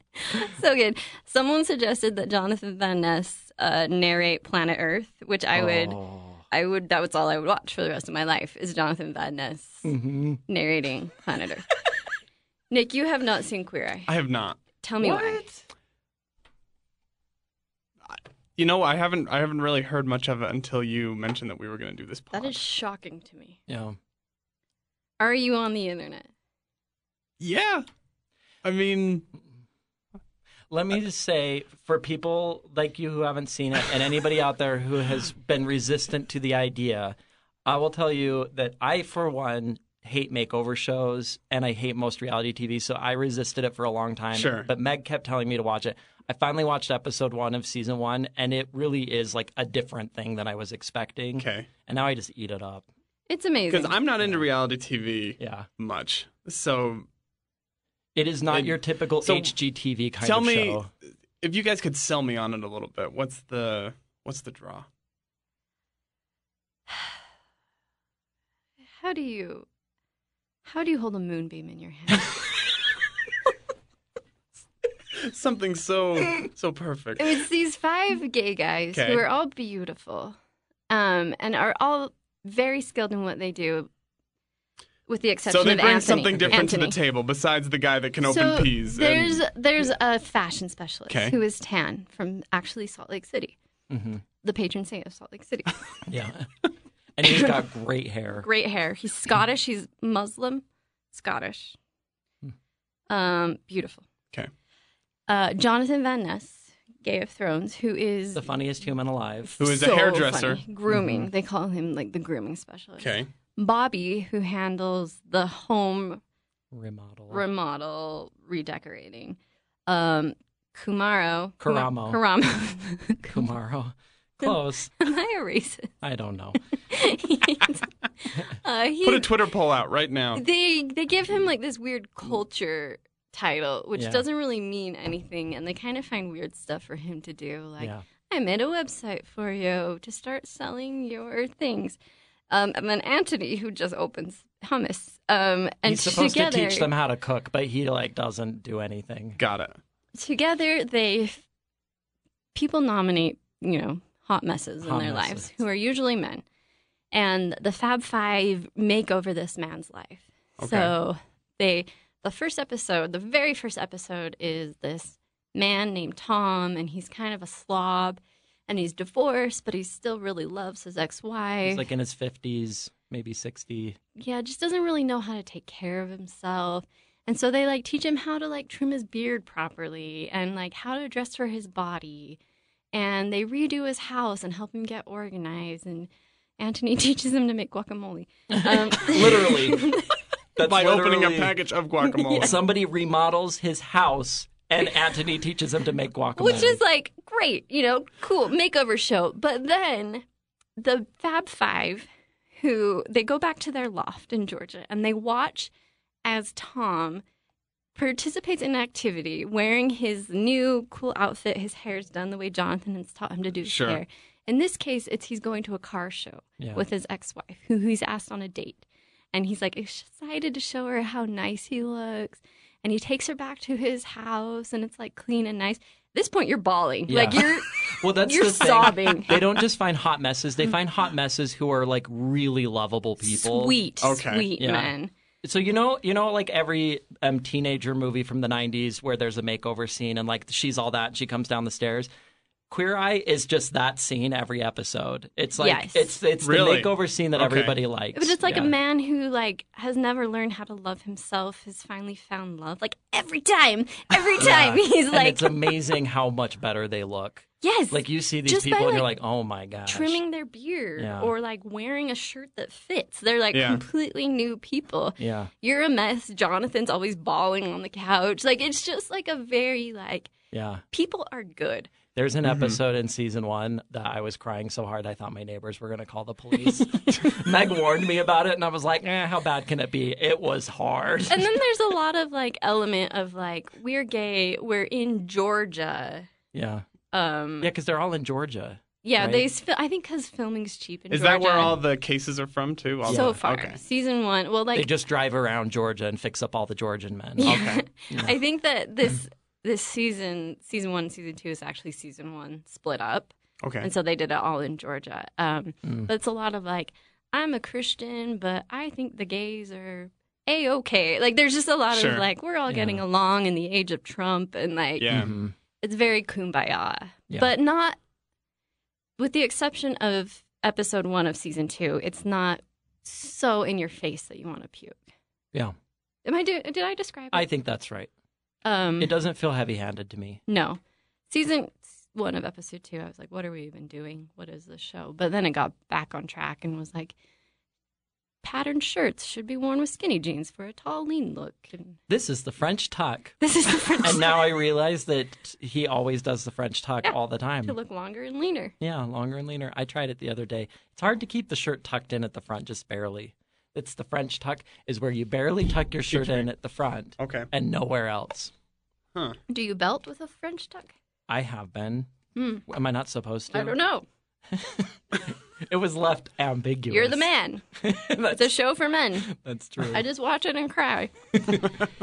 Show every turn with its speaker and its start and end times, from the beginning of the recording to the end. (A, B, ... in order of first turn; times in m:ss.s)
0:00.2-0:06.0 A
0:05.5-0:06.4 B
0:06.5-0:09.9 A
0:09.8-0:10.4 B
0:10.5-0:11.7 A
0:12.7-0:14.1 A
0:14.1-0:14.6 C
0:14.8-0:15.4 A
0:15.0-0:15.6 B
0:18.1-0:22.6 C
0:22.3-0:23.6 A
0:23.7-0:24.0 B
0:25.2-0:26.3 A
0:27.4-0:27.8 C
0:28.6-0:29.2 C
0:30.7-0:52.9 B
0:44.4-0:44.7 C
0:51.4-0:51.7 C
0:53.3-0:54.0 A
0:53.7-0:57.1 C
0:54.2-0:54.4 B
0:55.4-0:55.7 B
0:58.1-1:00.9 B
0:58.5-0:59.5 C
1:00.2-1:04.9 C
1:09.0-1:09.7 A
1:10.6-1:12.3 A
1:15.2-1:17.4 C
1:17.2-1:20.4 A
1:18.9-1:19.2 C
1:20.9-1:23.9 A
1:25.1-1:27.0 A
1:25.5-1:29.4 C
1:26.3-1:26.6 B
1:28.2-1:33.6 A
1:31.1-1:31.3 C
1:33.9-1:34.2 B
1:34.4-1:35.8 A
1:36.1-1:36.5 B
1:37.2-1:38.5 B
1:38.4-1:41.8 A
1:43.1-1:44.1 A
1:45.3-1:48.5 A
1:48.3-1:49.6 B
1:49.6-1:50.6 C
1:49.6-1:56.2 A
1:50.9-1:51.3 B
1:53.0-1:53.3 C
1:56.7-1:57.4 B
1:57.3-2:03.5 A
2:01.6-2:02.2 B
2:03.3-2:05.0 B
2:04.4-2:06.0 A
2:06.0-2:06.6 B
2:06.9-2:09.3 A
2:09.0-2:10.4 C
2:10.3-2:22.0 A
2:14.0-2:14.2 B
2:22.5-2:26.9 A
2:25.8-2:29.4 B
2:29.4-2:29.8 C
2:30.2-2:31.4 A
2:32.5-2:36.4 A
2:34.8-2:35.5 B
2:37.1-2:51.8 A
2:40.6-2:40.9 C
2:51.6-2:54.0 B
2:54.2-3:02.4 A
3:02.9-3:10.2 A
3:08.5-3:09.9 B
3:10.6-3:11.6 B
3:10.6-3:12.5 C
3:12.2-3:12.5 A
3:12.3-3:16.8 B
3:16.4-3:20.2 A
3:20.8-3:22.1 A
3:22.6-3:25.7 A
3:26.2-3:27.2 A
3:28.0-3:49.4 A
3:33.6-3:34.0 C
3:47.1-3:53.8 B
3:53.2-3:55.1 A
3:54.0-3:54.5 C
3:54.6-3:54.9 B
3:55.4-4:02.1 B
4:02.7-4:08.7 B
4:05.6-4:06.2 A
4:06.4-4:07.8 C
4:08.1-4:15.7 A
4:14.4-4:20.2 B
4:17.6-4:19.1 A
4:19.9-4:30.3 A
4:21.0-4:21.3 B
4:23.5-4:23.8 C
4:25.2-4:25.5 B
4:30.5-4:30.8 B
4:30.9-4:31.9 A
4:32.2-4:41.5 B
4:32.4-4:32.8 C
4:41.3-4:46.3 A
4:46.5-4:46.8 B
4:47.1-4:47.7 A
4:47.6-4:49.5 B
4:49.0-4:51.8 A
4:51.1-4:53.8 C
4:53.0-4:53.4 B
4:53.1-4:54.9 A
4:54.7-4:58.4 B
4:57.4-5:15.3 A
4:57.4-4:57.8 C
5:03.6-5:03.9 C
5:05.8-5:06.1 B
5:11.9-5:12.2 C
5:12.7-5:13.0 B
5:15.0-5:15.3 C
5:15.1-5:15.5 B
5:15.8-5:18.0 A
5:19.2-5:25.0 A
5:26.2-5:27.5 A
5:27.3-5:28.1 B
5:28.6-5:29.2 A
5:29.0-5:30.4 B
5:30.5-5:37.2 A
5:38.4-5:42.0 A
5:42.1-5:43.4 B
5:43.4-5:44.6 A
5:44.0-5:47.8 B
5:47.0-5:48.8 A
5:48.8-5:58.5 B
5:56.1-5:56.4 C
5:57.2-5:57.5 C
5:59.1-5:59.4 C
5:59.5-6:00.9 A
6:01.3-6:02.1 B
6:02.3-6:02.6 A
6:02.7-6:03.8 B
6:03.5-6:04.0 A
6:04.5-6:08.5 B
6:06.9-6:07.6 A
6:08.3-6:09.3 A
6:09.2-6:10.0 B
6:09.8-6:11.1 A